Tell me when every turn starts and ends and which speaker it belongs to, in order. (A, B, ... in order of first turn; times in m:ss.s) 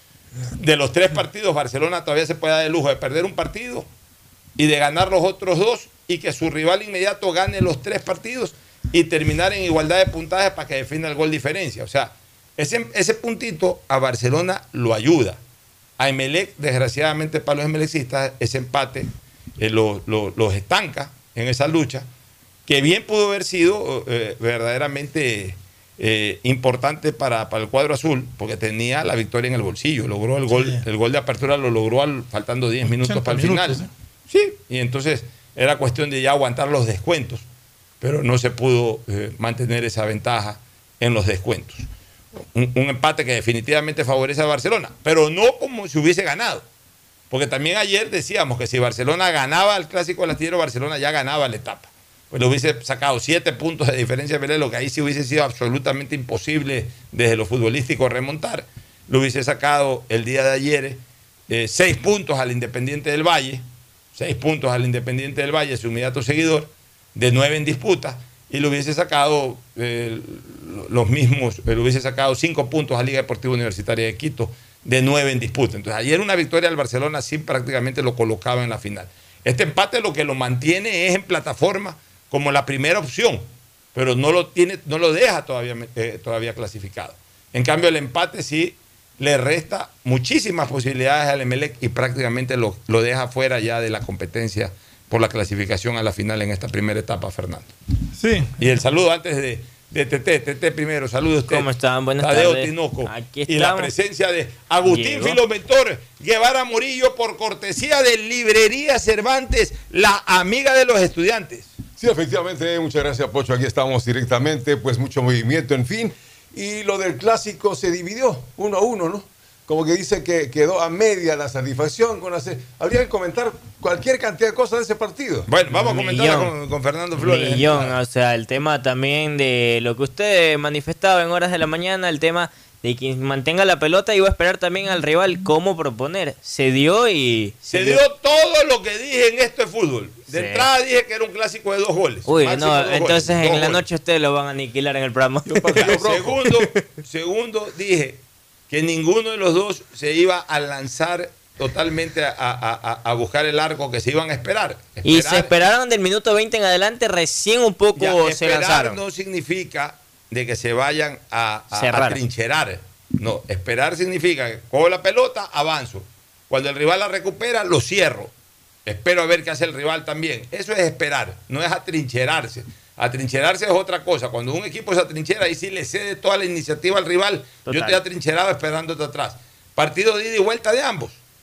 0:00.6-0:03.9 A
0:04.6-0:15.4 A
0:16.0-0:22.1 A
0:22.6-0:37.5 A
0:30.5-0:30.8 B
0:32.9-0:33.9 B
0:38.0-0:41.9 A
0:42.4-0:46.6 A
0:47.3-1:37.7 A
1:38.2-1:38.7 B
1:38.6-1:41.7 A
1:41.5-1:43.9 C
1:42.2-1:51.8 A
1:44.8-1:45.4 C
1:52.0-2:05.5 D
2:05.5-2:08.0 A
2:05.7-2:06.6 C
2:07.2-2:18.0 C
2:17.7-2:23.9 A
2:20.3-2:20.7 C
2:22.3-2:26.0 C
2:25.5-2:26.6 D
2:25.6-2:26.3 B
2:25.6-2:35.5 A
2:35.0-2:39.0 C
2:38.0-2:48.3 A
2:41.7-2:42.2 C
2:48.9-3:01.2 A
2:57.6-2:58.0 C